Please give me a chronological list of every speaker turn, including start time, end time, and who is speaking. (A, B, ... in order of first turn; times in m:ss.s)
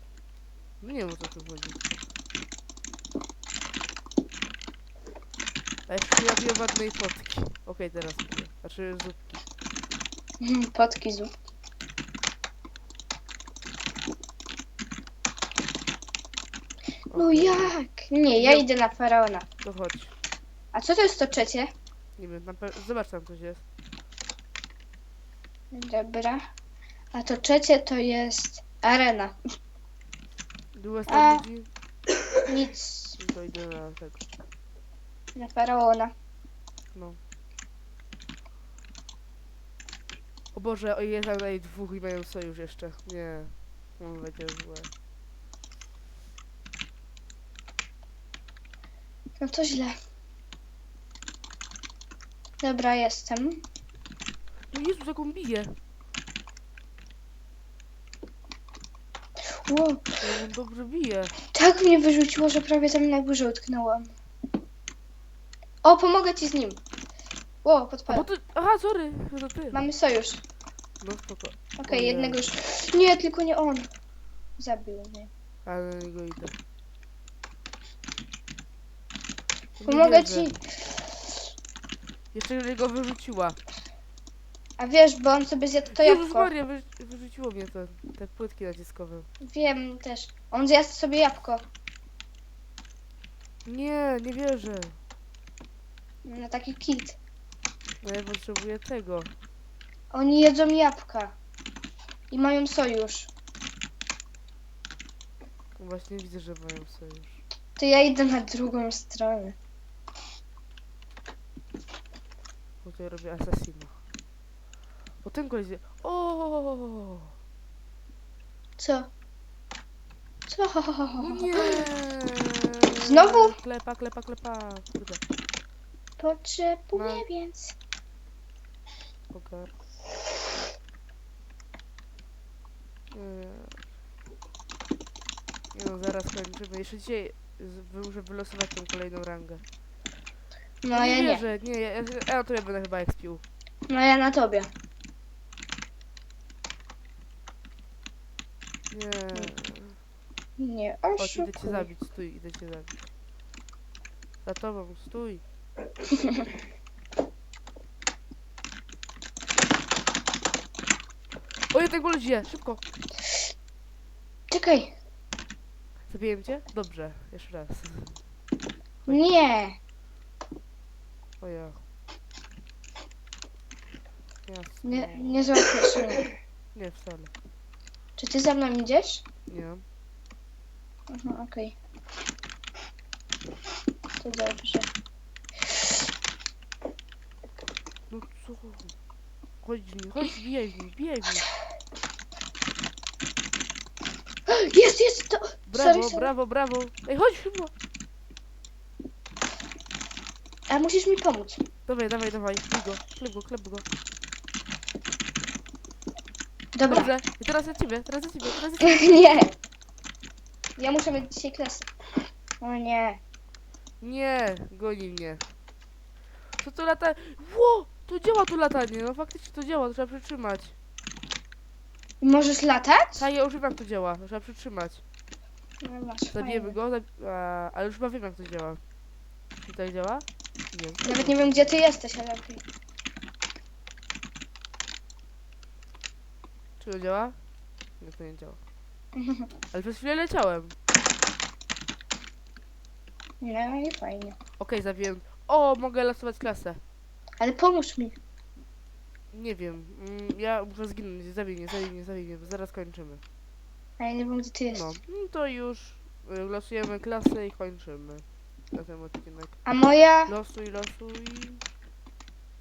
0:00.8-0:01.8 A
0:05.9-0:09.4 A
0:10.4-0:11.3 B
0:17.1-0:17.7 A
0:17.1-0:19.4 B
0:18.3-0:18.6 A
0:19.6-0:20.1 A
0:20.7-0:21.7 B
0:22.2-0:23.6 A
0:25.7-0:26.4 B
0:27.1-0:29.4 B
0:30.7-0:31.7 A
0:31.1-0:31.4 B
0:32.4-0:33.2 B
0:33.2-0:34.2 A
0:35.3-0:36.1 B
0:40.5-0:44.9 A
0:49.4-0:50.0 B
0:52.6-0:53.6 B
0:54.7-0:55.8 A
0:59.4-1:00.1 B
1:00.2-1:01.3 A
1:01.5-1:04.1 B
1:05.8-1:06.8 B
1:07.6-1:08.3 B
1:08.1-1:09.8 A
1:09.7-1:10.4 B
1:11.0-1:12.5 A
1:11.8-1:13.9 B
1:14.6-1:15.3 B
1:15.6-1:16.5 A
1:19.8-1:20.6 A
1:19.8-1:20.6 B
1:22.3-1:23.6 A
1:24.8-1:26.5 B
1:25.9-1:29.3 A
1:29.4-1:31.6 B
1:33.6-1:35.0 A
1:36.2-1:37.2 B
1:38.0-1:39.3 A
1:40.1-1:41.3 B
1:42.3-1:43.3 B
1:45.8-1:47.4 A
1:47.8-1:49.5 B
1:52.8-1:53.9 A
1:55.2-1:57.3 A
1:58.8-1:59.1 B
2:00.5-2:01.8 B
2:01.2-2:05.2 A
2:03.0-2:03.5 B
2:06.2-2:07.7 B
2:06.9-2:07.2 A
2:09.3-2:09.7 A
2:13.1-2:13.8 A
2:15.7-2:19.6 A
2:20.8-2:21.4 B
2:20.9-2:23.4 A
2:23.9-2:24.7 B
2:28.9-2:30.0 A
2:30.6-2:31.8 B
2:31.2-2:33.0 A
2:34.4-2:35.4 A
2:41.7-2:42.8 A
2:44.5-2:44.9 B
2:46.1-2:48.2 A
2:49.1-2:49.8 B
2:51.4-2:51.8 A
2:54.5-2:55.5 A
2:54.8-2:56.2 B
2:56.7-2:57.3 A
2:58.2-2:59.2 B
2:59.5-2:59.8 A
3:01.1-3:01.7 B
3:04.2-3:04.9 B
3:08.1-3:08.9 A
3:09.6-3:11.5 A
3:14.5-3:16.3 B
3:15.7-3:17.7 A
3:20.7-3:21.6 B
3:21.9-3:23.8 A
3:26.7-3:27.1 B
3:26.9-3:29.2 A
3:28.8-3:29.5 B
3:30.8-3:31.9 B
3:32.6-3:33.2 B
3:34.0-3:35.4 A
3:36.6-3:40.7 A
3:42.2-3:43.2 B
3:43.2-3:45.0 A
3:45.8-3:46.8 B
3:46.3-3:48.8 A
3:49.6-3:51.8 A
3:51.0-3:52.6 B
3:56.8-3:57.4 A
3:58.0-3:58.6 A
3:59.1-3:59.5 B
3:59.7-4:00.8 A
4:03.4-4:04.4 B
4:04.6-4:06.8 A
4:07.4-4:08.1 B
4:09.3-4:13.2 A
4:14.0-4:14.9 B
4:14.7-4:19.6 A
4:19.6-4:20.3 B
4:20.3-4:21.6 A